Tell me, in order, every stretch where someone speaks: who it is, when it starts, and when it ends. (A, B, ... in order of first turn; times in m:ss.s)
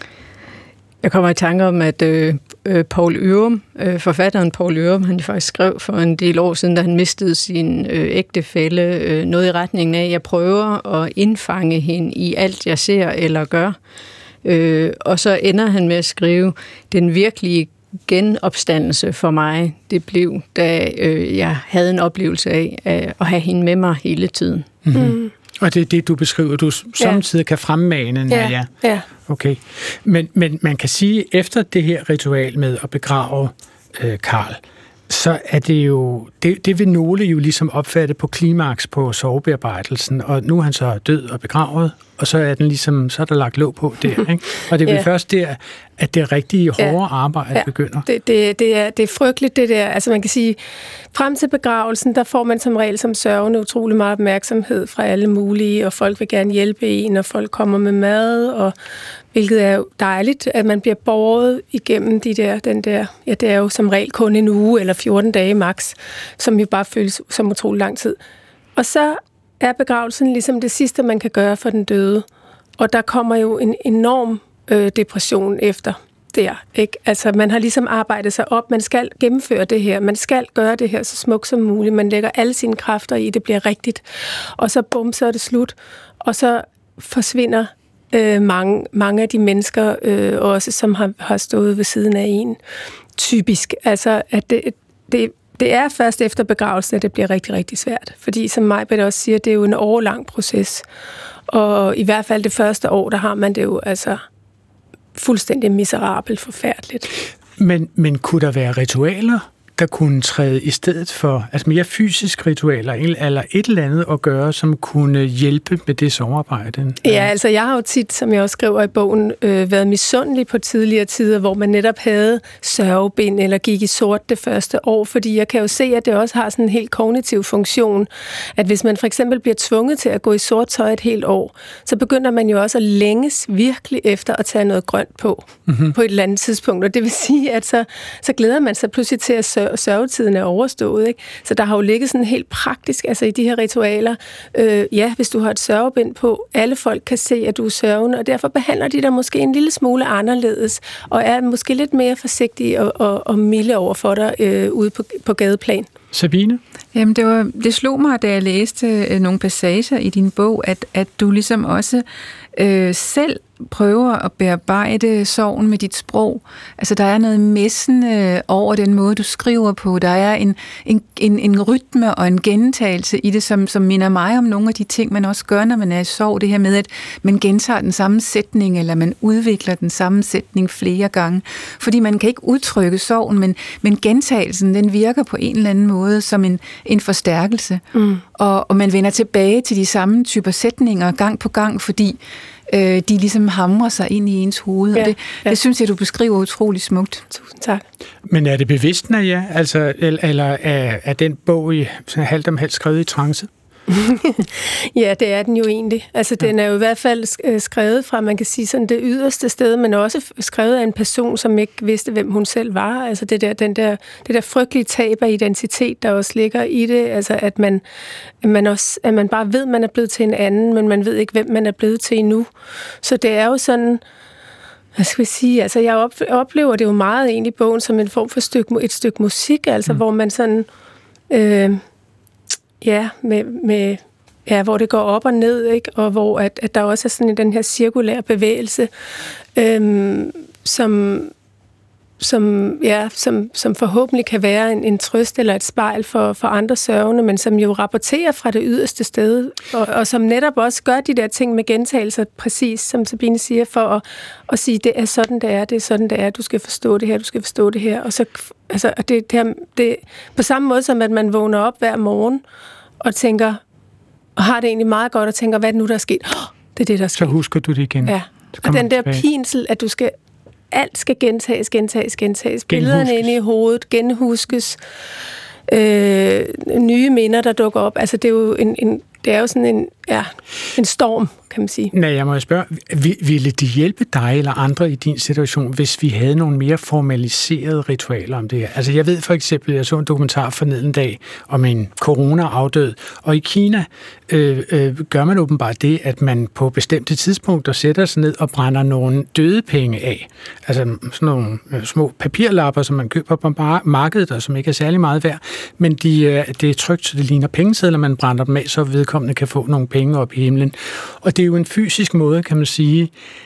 0:01.0-0:13.8 A
0:14.4-0:24.7 A
0:24.9-0:48.1 B
0:24.9-0:25.3 C
0:28.3-0:29.1 C
0:47.5-0:50.6 C
0:51.1-0:58.7 C
0:59.3-1:08.2 C
1:08.8-1:12.3 C
1:12.8-1:24.0 C
1:24.6-1:32.6 C
1:33.2-1:40.8 C
1:41.5-1:44.2 C
1:45.2-1:47.1 C
1:47.6-1:57.3 B
1:57.0-2:35.9 C
2:15.7-2:15.9 B
2:36.1-2:36.6 B
2:36.9-3:07.8 D
3:08.0-3:08.2 C
3:08.4-3:17.2 D
3:15.0-3:15.6 C
3:17.3-3:17.8 C
3:18.3-3:23.5 B
3:23.9-3:37.8 C
3:38.4-3:42.5 C
3:43.0-3:44.0 C
3:45.0-3:50.7 C
3:51.3-3:51.8 C
3:52.8-3:58.9 C
3:59.6-4:01.3 C
4:02.2-4:22.4 C
4:23.0-4:23.6 C
4:24.4-4:27.4 C
4:27.2-4:29.2 B
4:28.0-4:30.1 C
4:30.7-4:34.8 C
4:32.7-4:33.3 B
4:35.7-4:41.9 C
4:41.9-5:13.1 B